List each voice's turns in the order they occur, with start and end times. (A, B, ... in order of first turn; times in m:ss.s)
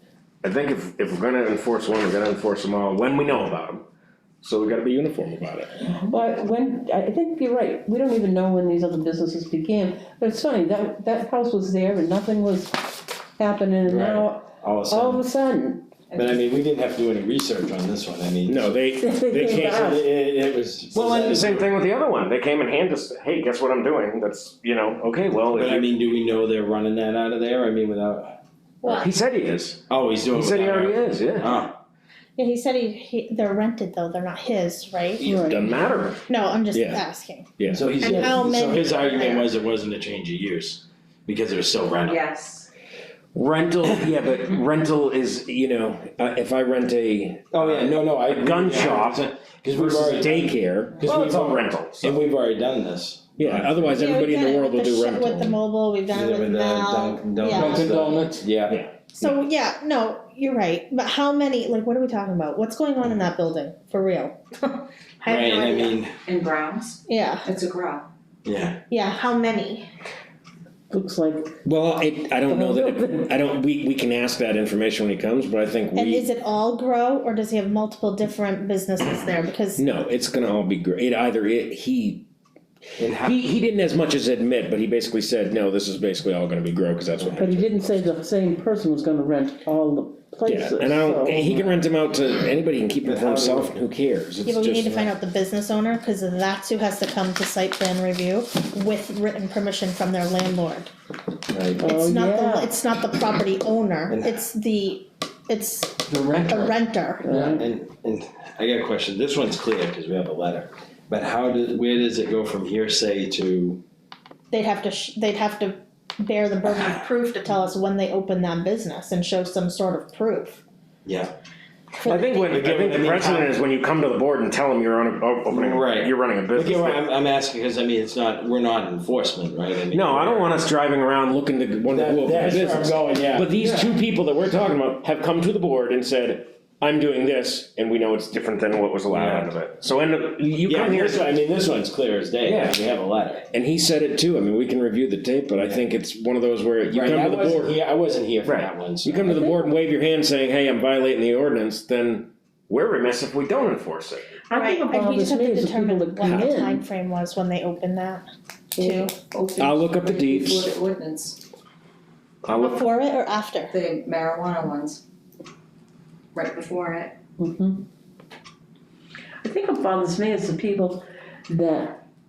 0:00.4-0:03.8 A
0:04.4-0:05.8 A
0:05.8-0:15.9 B
0:13.9-0:15.2 C
0:16.2-0:18.8 C
0:18.5-0:20.0 A
0:19.0-0:20.1 B
0:19.4-0:21.7 C
0:20.9-0:25.9 A
0:25.5-0:28.4 C
0:28.8-0:29.1 D
0:28.8-0:31.6 A
0:29.9-0:31.8 C
0:32.4-0:39.5 D
0:35.2-0:37.0 A
0:35.2-0:35.6 B
0:37.6-0:37.9 A
0:37.7-0:38.3 B
0:37.7-0:42.2 C
0:42.0-0:42.7 E
0:43.3-0:52.2 A
0:47.5-0:54.0 C
0:53.4-0:55.6 A
0:53.9-0:57.9 D
0:56.1-0:58.8 C
0:57.6-0:59.4 A
0:59.2-1:06.0 D
1:05.3-1:06.1 C
1:06.2-1:08.1 E
1:07.1-1:07.5 D
1:08.4-1:08.8 C
1:08.9-1:09.9 D
1:10.9-1:11.6 B
1:11.6-1:16.3 A
1:12.5-1:13.3 B
1:16.0-1:19.8 D
1:19.8-1:22.3 A
1:23.0-1:23.4 C
1:23.2-1:27.9 A
1:27.2-1:27.5 C
1:27.4-1:31.5 B
1:30.4-1:35.1 A
1:33.0-1:33.7 C
1:34.4-1:40.9 D
1:41.5-1:41.8 C
1:41.8-1:42.7 B
1:41.8-1:47.3 D
1:44.1-1:44.4 C
1:47.2-1:47.6 B
1:47.5-1:53.8 C
1:54.5-2:00.6 D
2:01.0-2:01.3 C
2:01.9-2:02.6 D
2:02.0-2:07.0 A
2:02.4-2:03.5 C
2:05.5-2:10.6 C
2:09.9-2:21.3 A
2:11.9-2:13.5 C
2:19.1-2:19.5 C
2:20.7-2:23.5 C
2:22.4-2:22.8 A
2:23.5-2:27.8 A
2:26.9-2:29.4 C
2:28.4-2:34.3 A
2:29.3-2:29.7 B
2:34.5-2:36.8 B
2:34.5-2:38.3 D
2:38.8-2:39.1 B
2:38.8-2:39.1 D
2:39.3-2:41.4 E
2:39.6-2:40.7 A
2:42.4-2:42.8 A
2:42.5-2:43.7 D
2:43.7-2:45.0 E
2:46.4-2:47.2 E
2:47.4-2:47.9 B
2:49.4-2:52.0 B